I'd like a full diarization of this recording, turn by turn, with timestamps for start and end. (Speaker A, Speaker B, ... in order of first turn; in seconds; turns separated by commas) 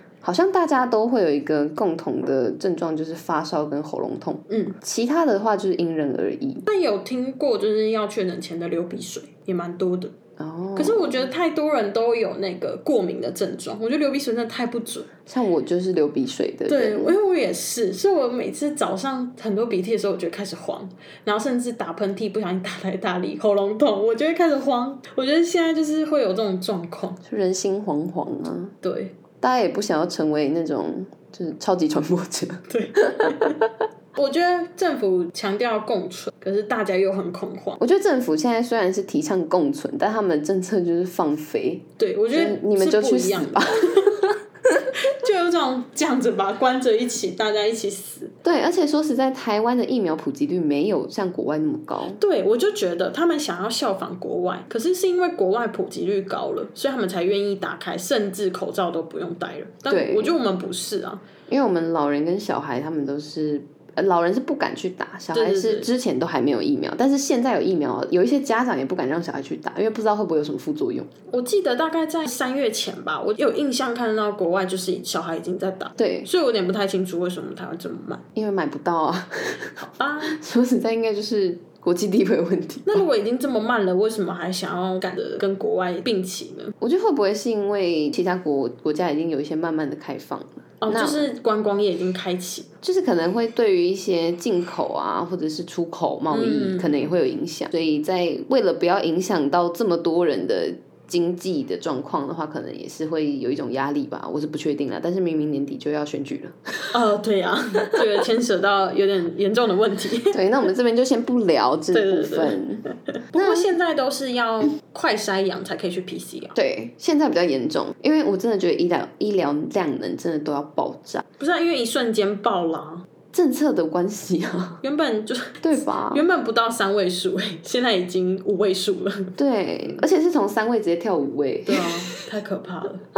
Speaker A: 0.2-6.6, Speaker B: 4.5-4.8, Speaker B: 6.7-10.1, Speaker A: 10.4-11.2, Speaker B: 10.8-15.1, Speaker A: 15.3-17.1, Speaker B: 16.7-27.2, Speaker A: 27.2-28.7, Speaker B: 28.8-29.1, Speaker A: 29.4-33.7, Speaker B: 32.7-33.6, Speaker B: 34.1-37.8, Speaker A: 37.8-44.9, Speaker B: 42.0-44.3, Speaker B: 44.9-48.3, Speaker A: 48.4-52.2, Speaker B: 52.2-61.2, Speaker A: 59.9-60.3, Speaker A: 61.5-71.1, Speaker B: 65.3-65.9, Speaker B: 71.3-78.2, Speaker A: 76.0-76.3, Speaker A: 78.3-83.0, Speaker B: 79.8-80.4, Speaker B: 82.8-86.7, Speaker A: 86.8-91.3, Speaker B: 90.8-92.7, Speaker A: 92.8-106.9, Speaker B: 96.3-97.1, Speaker B: 106.9-110.4, Speaker A: 110.3-113.7, Speaker B: 111.9-116.6, Speaker A: 116.5-121.2, Speaker B: 121.4-123.0, Speaker A: 123.3-124.8, Speaker B: 124.8-129.3, Speaker A: 125.6-126.2, Speaker A: 129.4-132.2, Speaker B: 131.7-133.0